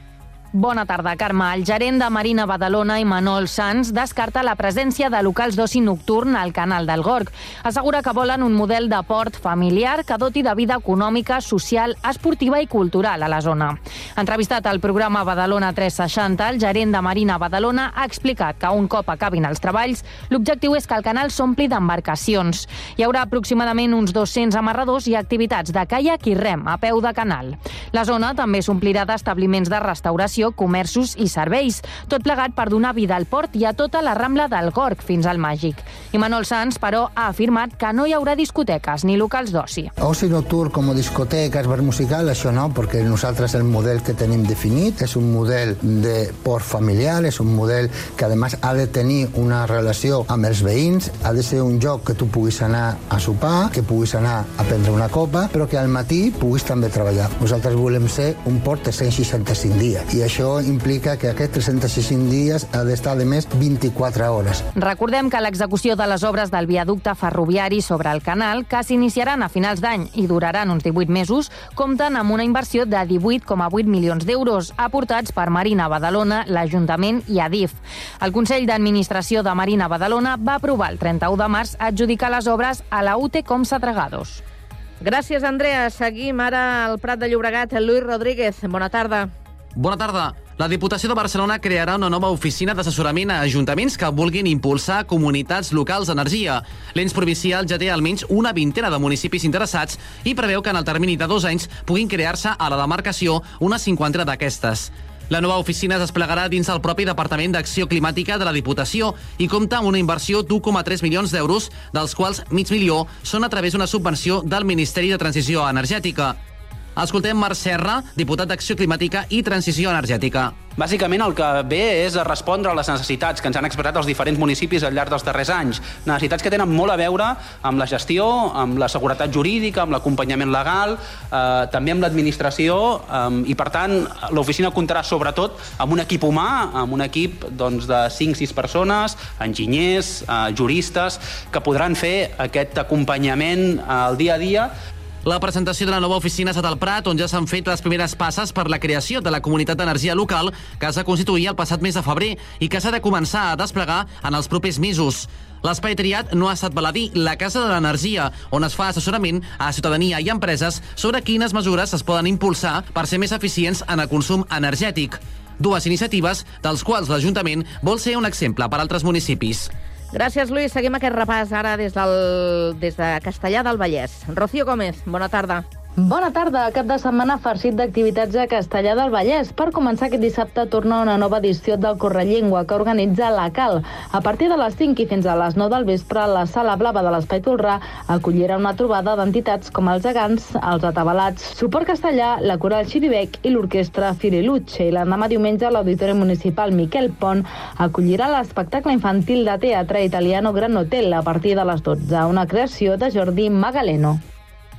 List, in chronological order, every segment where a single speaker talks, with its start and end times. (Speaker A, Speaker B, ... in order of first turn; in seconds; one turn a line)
Speaker A: 0.5-39.9
Speaker B: 40.0-64.7
Speaker A: 64.8-84.4
Speaker C: 85.0-89.3
Speaker D: 89.8-116.4
Speaker D: 117.0-120.6
Speaker E: 120.8-144.7
Speaker D: 145.2-169.7
Speaker C: 170.1-175.7
Speaker F: 176.0-204.2